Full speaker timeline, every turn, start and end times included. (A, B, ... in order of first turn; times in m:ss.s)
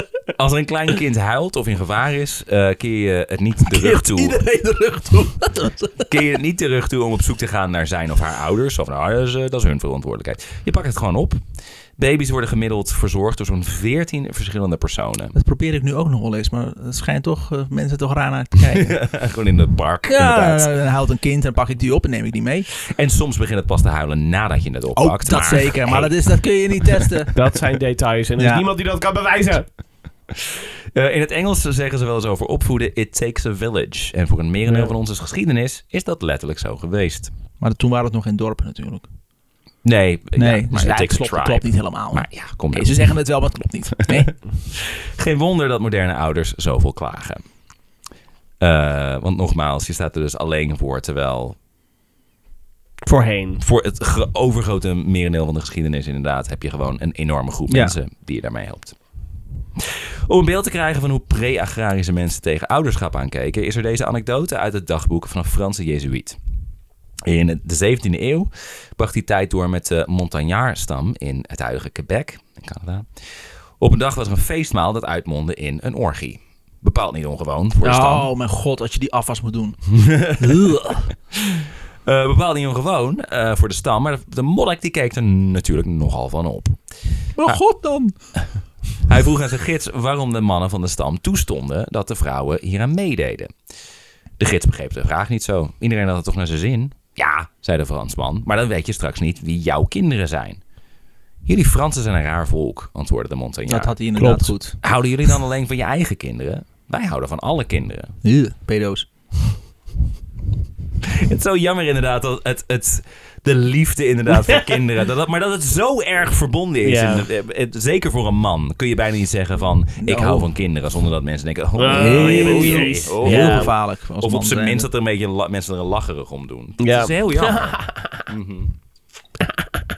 0:00.3-0:04.4 A
0:03.6-0:06.1 B
0:06.0-0:11.4 A
0:12.0-0:15.3 A
0:15.3-0:19.0 B
0:18.7-0:20.7 A
0:20.1-0:22.7 B
0:22.9-0:27.2 A
0:25.0-0:27.3 B
0:27.3-0:29.7 C
0:28.4-0:28.6 B
0:30.9-0:37.3 A
0:34.6-0:34.9 C
0:37.6-0:39.1 B
0:39.8-0:43.1 A
0:40.4-0:44.3 B
0:44.1-0:47.4 A
0:48.6-0:51.6 A
0:53.0-0:53.6 C
0:53.6-0:59.0 A
0:57.7-0:57.9 B
0:59.8-1:06.4 A
1:07.2-1:18.3 A
1:17.8-1:21.1 B
1:19.9-1:20.7 A
1:21.5-1:26.8 A
1:27.4-1:28.2 B
1:29.0-1:33.5 A
1:34.4-1:40.6 A
1:41.4-1:48.1 A
1:43.7-1:44.8 B
1:48.2-1:49.1 B
1:51.2-2:08.7 A
1:56.8-1:57.2 C
2:00.0-2:00.5 B
2:01.8-2:03.7 C
2:01.9-2:04.9 B
2:06.8-2:08.2 C